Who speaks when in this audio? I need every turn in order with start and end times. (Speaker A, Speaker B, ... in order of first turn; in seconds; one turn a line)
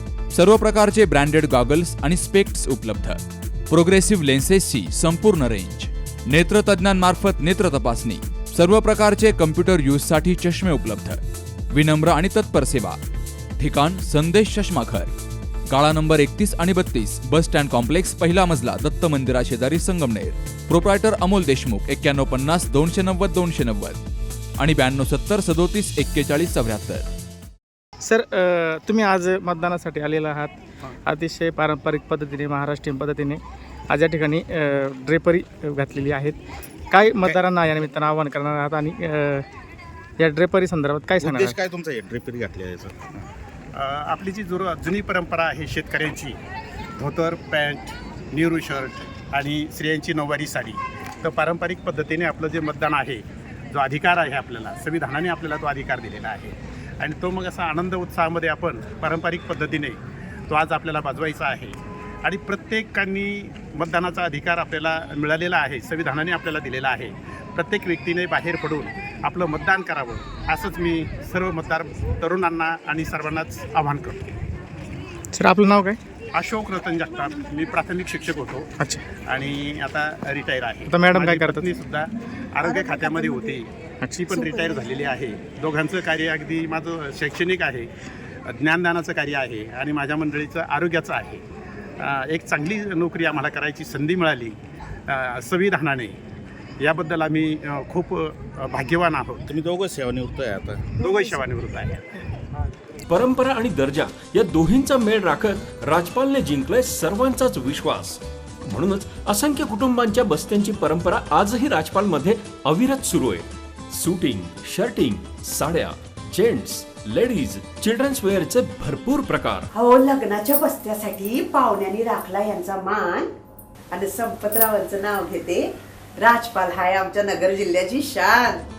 Speaker A: 0.3-3.2
Speaker A: 3.7-11.2
Speaker A: 11.7-13.0
Speaker A: 13.6-15.1
Speaker A: 15.7-24.0
Speaker A: 24.6-27.1
Speaker B: 28.0-36.4
Speaker B: 36.9-39.4
Speaker B: 40.2-41.6
Speaker C: 41.2-43.2
Speaker D: 43.7-46.4
Speaker D: 47.0-60.0
Speaker D: 60.5-74.2
Speaker B: 75.3-76.0
Speaker D: 76.3-78.7
Speaker D: 79.3-87.9
Speaker B: 80.9-81.7
Speaker B: 84.0-84.3
Speaker D: 88.5-91.4
Speaker D: 92.0-94.6
Speaker D: 95.1-96.2
Speaker D: 96.8-99.5
Speaker C: 99.5-101.0
Speaker D: 101.0-102.0
Speaker E: 103.1-119.7
Speaker F: 119.7-123.3
Speaker F: 123.9-128.6